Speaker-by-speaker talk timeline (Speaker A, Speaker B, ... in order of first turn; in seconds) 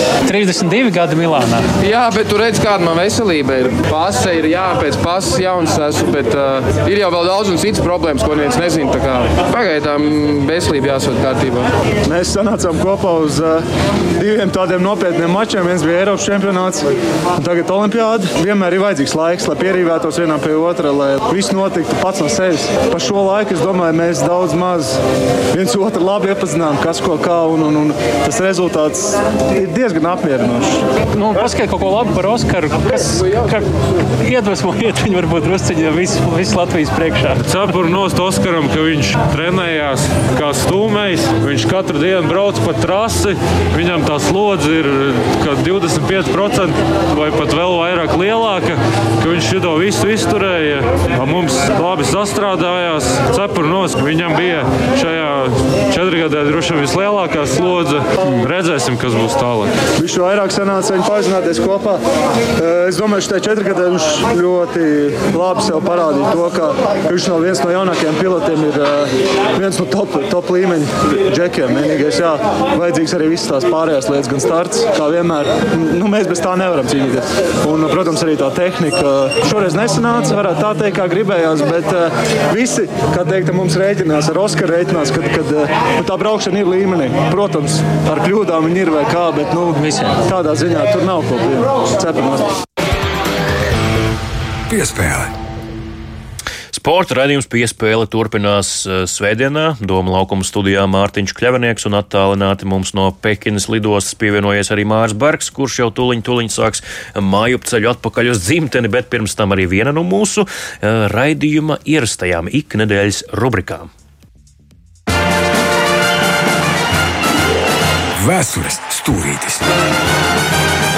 Speaker A: 0.2-1.7, 31.1-33.7, 34.2-37.4, 89.8-90.2
Speaker B: 1.8-11.7
Speaker C: 12.1-13.7, 14.2-25.0, 25.5-30.8, 60.0-62.0, 62.6-92.6
Speaker D: 37.4-59.7
Speaker E: 94.7-95.3, 118.2-119.7
Speaker F: 96.7-113.9